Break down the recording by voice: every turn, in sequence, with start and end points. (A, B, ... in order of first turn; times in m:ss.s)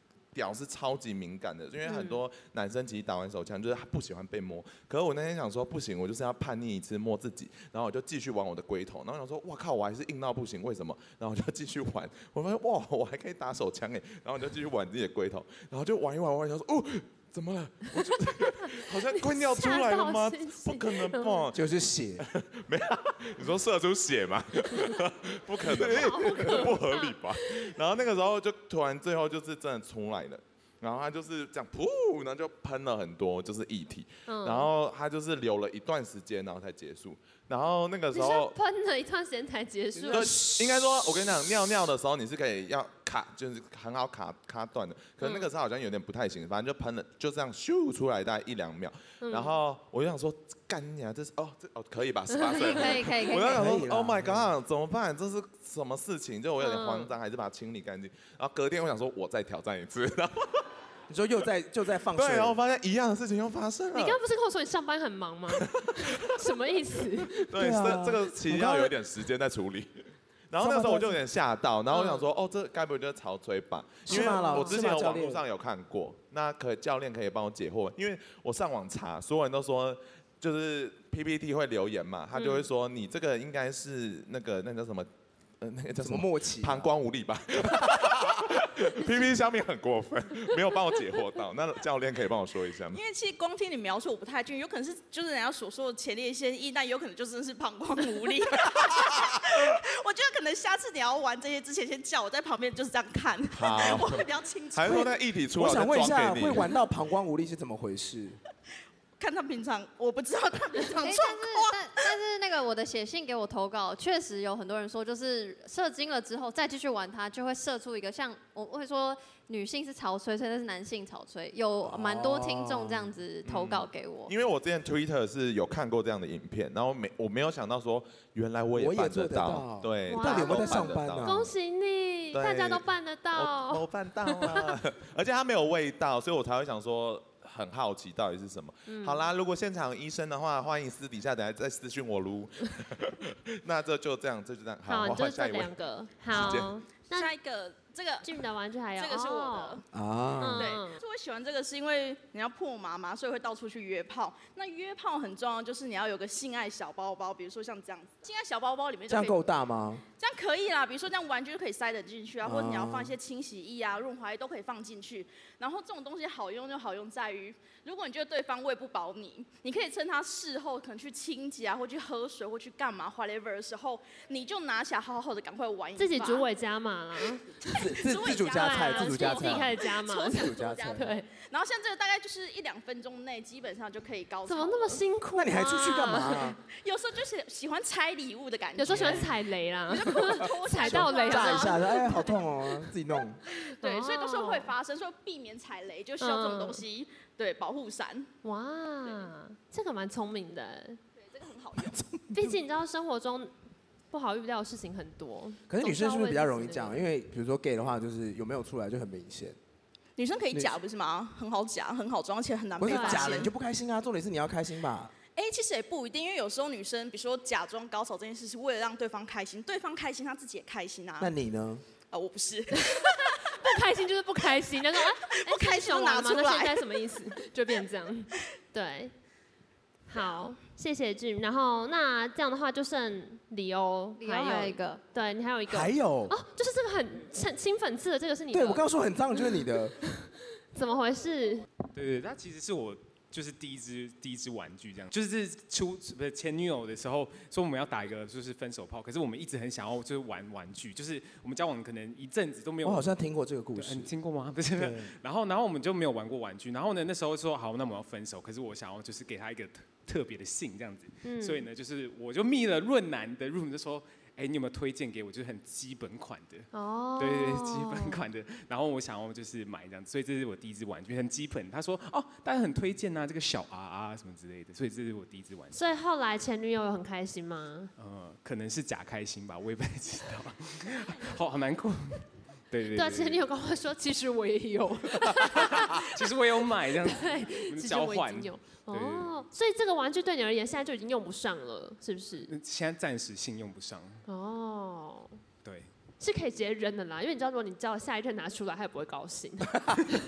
0:00.3-0:21.6 A
0:01.8-0:02.2 B
0:18.7-0:21.5 B
0:21.5-0:22.2 C
0:22.2-0:38.6 A
0:25.8-0:27.7 B
0:25.8-0:26.4 C
0:34.3-0:34.7 B
0:38.1-0:40.4 B
0:40.0-0:40.9 C
0:40.1-1:00.7 A
0:45.2-0:45.5 B
0:49.2-0:49.6 B
0:52.4-0:53.7 D
0:52.5-0:52.9 B
0:53.5-0:54.5 C
0:56.6-0:57.1 B
1:01.1-1:02.6 C
1:02.1-1:04.2 A
1:03.9-1:07.5 B
1:05.6-1:06.4 A
1:07.5-1:25.1 A
1:07.6-1:08.9 C
1:10.6-1:11.2 C
1:11.9-1:12.2 B
1:14.1-1:15.4 C
1:14.1-1:14.8 B
1:22.4-1:22.7 B
1:25.6-1:33.0 A
1:26.0-1:26.9 C
1:32.9-1:45.2 E
1:38.7-1:39.6 A
1:43.5-1:44.2 A
1:44.8-1:46.8 A
1:44.9-1:48.4 C
1:49.2-1:52.1 E
1:51.0-2:04.3 D
2:01.8-2:03.2 C
2:03.4-2:11.4 A
2:08.8-2:11.5 C
2:10.1-2:14.8 B
2:12.3-2:25.8 A
2:18.9-2:19.2 B
2:24.9-2:27.3 B
2:26.3-2:26.8 A
2:27.1-2:28.4 E
2:28.2-2:29.8 B
2:29.0-2:29.8 E
2:29.9-2:30.7 C
2:30.4-2:31.0 B
2:30.6-2:39.4 E
2:39.1-2:40.0 C
2:40.2-2:56.5 E
2:42.4-2:43.2 C
2:56.0-2:57.4 B
2:57.3-3:05.0 E
2:57.7-3:01.1 C
2:58.3-3:01.3 B
3:04.5-3:06.5 B
3:05.4-3:06.6 C
3:06.7-3:12.5 E
3:08.8-3:12.4 B
3:08.9-3:09.3 C
3:10.8-3:13.4 C
3:13.5-3:14.7 B
3:13.8-3:18.3 E
3:16.2-3:16.8 B
3:18.4-3:21.0 B
3:21.2-3:22.0 E
3:21.8-3:22.6 C
3:22.3-3:23.5 B
3:24.1-3:27.0 B
3:25.7-3:29.6 C
3:30.2-3:33.5 E
3:30.5-3:30.8 C
3:32.8-3:35.1 C
3:32.9-3:33.4 B
3:35.4-3:41.3 E
3:41.2-3:41.8 C
3:42.1-3:43.6 E
3:42.8-3:49.1 B
3:45.0-3:47.1 E
3:50.1-3:58.8 B
3:50.2-3:50.4 E
3:54.2-3:55.0 D
3:55.7-3:56.4 C
3:58.5-4:00.0 C
4:00.2-4:01.7 B
4:01.9-4:13.2 F
4:12.8-4:14.1 C
4:13.8-4:35.8 F
4:14.7-4:15.1 C
4:21.2-4:21.7 B
4:26.7-4:28.2 B
4:35.7-4:37.9 B
4:38.0-4:43.4 F
4:42.9-4:46.1 B
4:45.3-4:49.4 F
4:47.0-4:52.5 B
4:52.5-4:54.2 F
4:54.3-4:55.4 B
4:55.6-4:55.9 F
4:56.2-4:59.9 B
4:59.7-5:00.2 C